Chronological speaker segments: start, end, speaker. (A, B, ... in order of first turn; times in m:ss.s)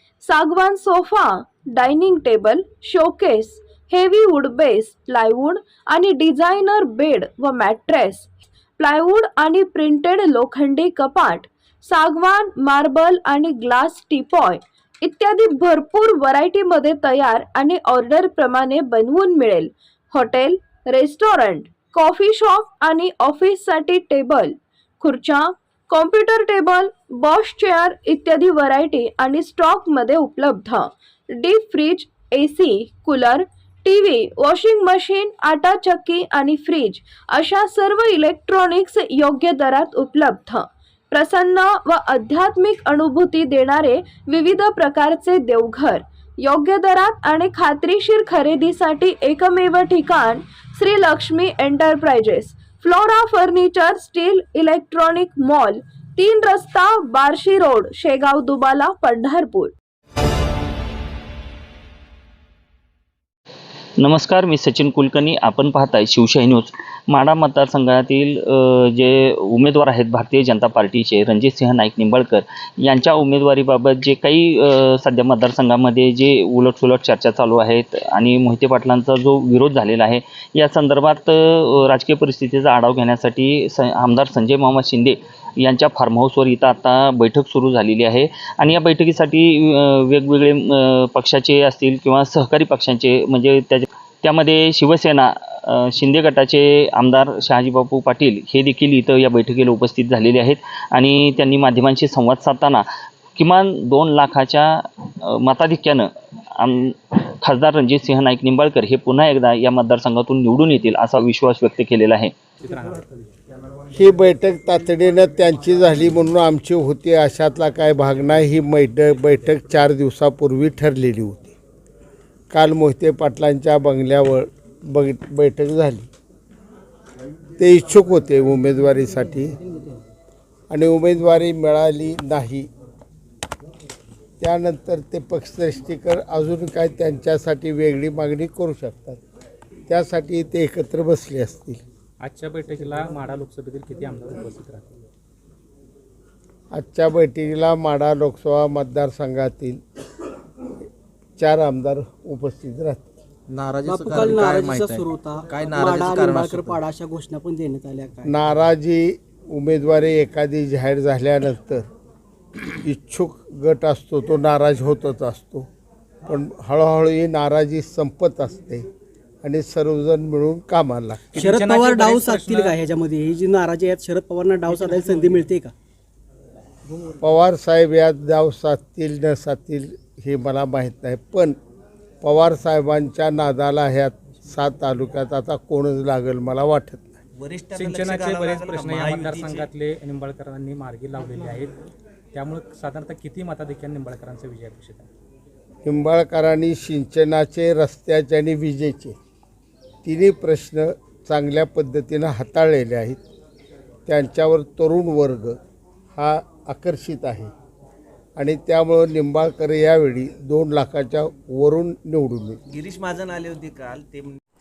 0:00.2-0:59.8 A
1:04.0-1:42.8 B
1:43.4-1:52.3 B
1:52.7-1:53.0 C
1:53.9-2:01.6 D
2:02.5-2:06.1 D
2:07.6-2:09.6 D
2:10.7-2:12.7 D
2:14.4-2:19.2 D
2:19.9-2:21.8 D
2:22.2-2:24.9 C
2:26.7-2:29.8 D
2:31.4-2:33.1 D
2:33.5-2:36.8 E
2:33.9-2:38.4 F
2:38.3-2:41.9 D
2:42.8-2:45.7 D
2:46.3-2:48.8 D
2:49.4-2:51.4 D
2:51.4-2:55.7 F
2:51.5-2:52.7 C
2:57.2-3:01.6 D
3:02.2-3:07.2 D
3:07.4-3:09.7 E
3:07.8-3:11.8 C
3:12.3-3:15.1 C
3:15.8-3:19.2 D
3:20.0-3:23.2 D
3:24.1-3:25.6 D
3:26.2-3:27.5 D
3:28.4-3:32.6 D
3:32.7-3:34.4 E